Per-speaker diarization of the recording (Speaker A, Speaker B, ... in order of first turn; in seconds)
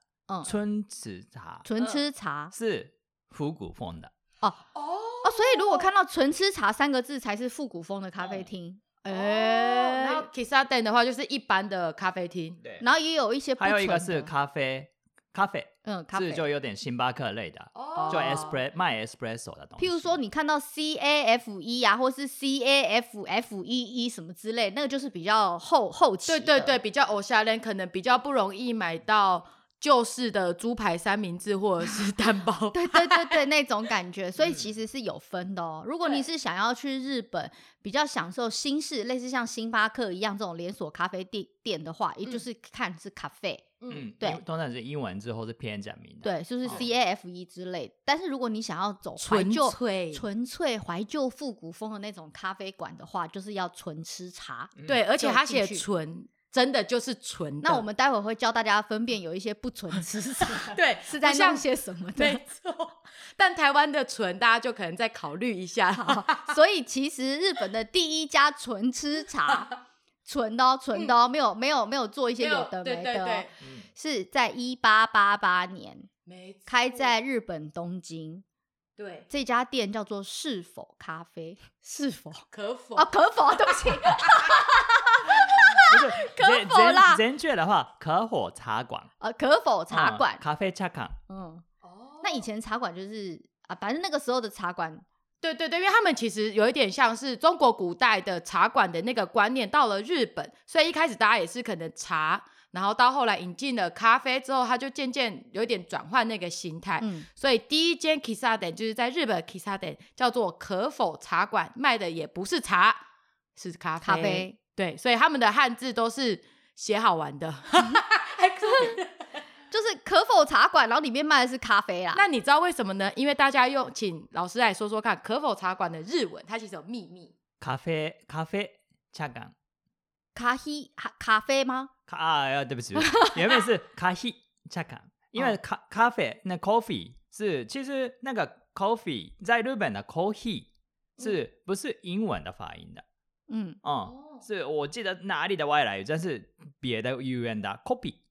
Speaker A: 0.4-1.6, 2.5-4.1, 13.6-20.2, 43.9-46.9, 54.8-55.0, 73.6-73.8, 85.8-89.1, 89.9-91.2, 127.6-129.5, 132.1-140.7, 141.2-143.0, 143.8-148.2
Speaker B: 1.6-2.5, 5.2-10.2, 12.8-14.3, 15.8-16.4, 18.0-18.4, 19.8-26.8, 32.7-44.4, 46.2-55.8, 57.6-62.4, 66.0-69.7, 70.2-76.1, 76.7-78.4, 79.3-87.2, 89.2-90.4, 91.3-91.6, 92.2-95.0, 107.0-107.3, 114.0-114.6, 119.7-122.2, 130.3-131.9, 133.0-133.5, 143.5-143.8
Speaker C: 1.8-2.0, 4.7-5.9, 9.1-12.6, 17.7-18.6, 26.3-33.4, 36.0-36.3, 43.8-44.1, 49.2-50.2, 54.9-57.8, 60.7-66.6, 72.4-73.5, 76.2-77.2, 79.0-79.3, 82.5-83.1, 84.0-84.5, 91.8-92.5, 95.4-113.0, 113.5-119.2, 122.1-127.3, 144.1-144.4